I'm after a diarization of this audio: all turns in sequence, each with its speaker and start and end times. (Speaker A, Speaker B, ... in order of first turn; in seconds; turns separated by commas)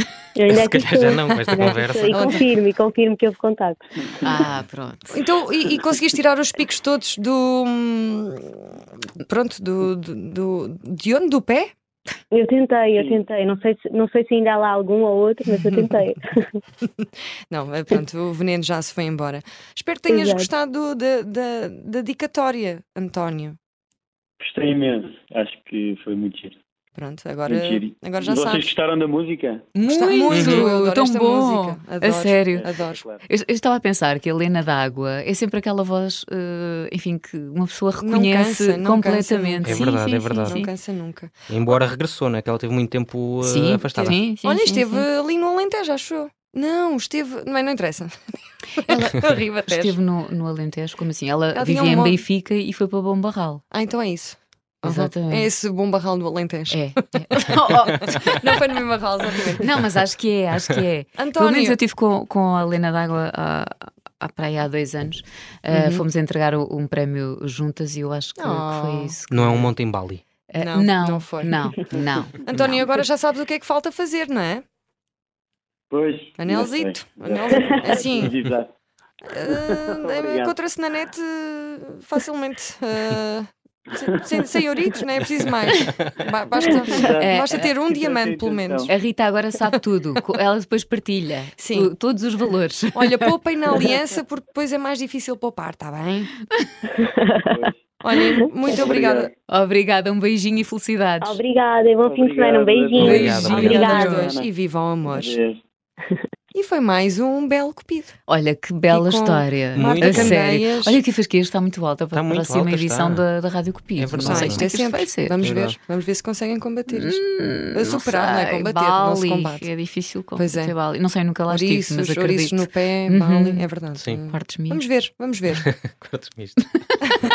Speaker A: 0.3-4.4, Speaker B: 0.5-2.4, Speaker C: 2.1-2.5, Speaker D: 4.2-5.1, Speaker C: 5.1-11.7, Speaker A: 12.3-16.4, Speaker E: 12.9-13.2, Speaker C: 17.0-23.6, Speaker A: 20.1-20.5, Speaker E: 24.4-26.6, Speaker C: 26.9-28.7, Speaker E: 27.5-29.6, Speaker D: 29.7-32.7, Speaker C: 29.8-33.0, Speaker B: 30.3-30.6, Speaker E: 32.5-33.2, Speaker D: 33.3-40.7, Speaker C: 38.0-39.8, Speaker B: 39.6-40.6, Speaker C: 40.4-41.3, Speaker B: 41.5-44.2, Speaker D: 43.4-45.0, Speaker C: 44.0-48.2, Speaker C: 48.8-50.0, Speaker D: 49.7-53.6, Speaker C: 51.5-52.2, Speaker C: 53.7-56.8, Speaker D: 54.8-55.5, Speaker D: 56.7-58.3, Speaker C: 57.4-59.7, Speaker D: 59.6-69.7, Speaker C: 61.2-61.8, Speaker C: 65.7-66.0, Speaker C: 68.4-69.1, Speaker B: 69.3-70.2, Speaker D: 70.5-72.8, Speaker C: 70.6-71.5, Speaker C: 72.4-74.6, Speaker E: 75.9-78.7, Speaker C: 76.4-78.3, Speaker C: 79.3-88.9, Speaker E: 79.5-80.5, Speaker E: 86.8-88.9, Speaker D: 86.9-87.7, Speaker D: 88.9-93.3, Speaker C: 91.6-91.9, Speaker C: 92.9-96.3, Speaker A: 97.0-97.4, Speaker E: 97.4-97.8, Speaker C: 98.0-99.3, Speaker E: 98.7-99.3, Speaker D: 99.5-101.4, Speaker A: 101.2-104.3, Speaker E: 102.0-104.5, Speaker D: 103.0-104.3, Speaker B: 103.0-104.0, Speaker C: 103.3-105.4, Speaker E: 105.0-105.6, Speaker C: 106.5-108.1, Speaker D: 108.3-115.4, Speaker C: 108.9-111.0, Speaker B: 109.7-110.3, Speaker B: 112.1-113.2, Speaker B: 114.0-114.6, Speaker C: 114.2-119.7, Speaker B: 115.4-115.8, Speaker D: 116.9-123.7, Speaker C: 120.3-120.8, Speaker C: 121.5-125.6, Speaker D: 124.3-124.8, Speaker B: 125.5-126.6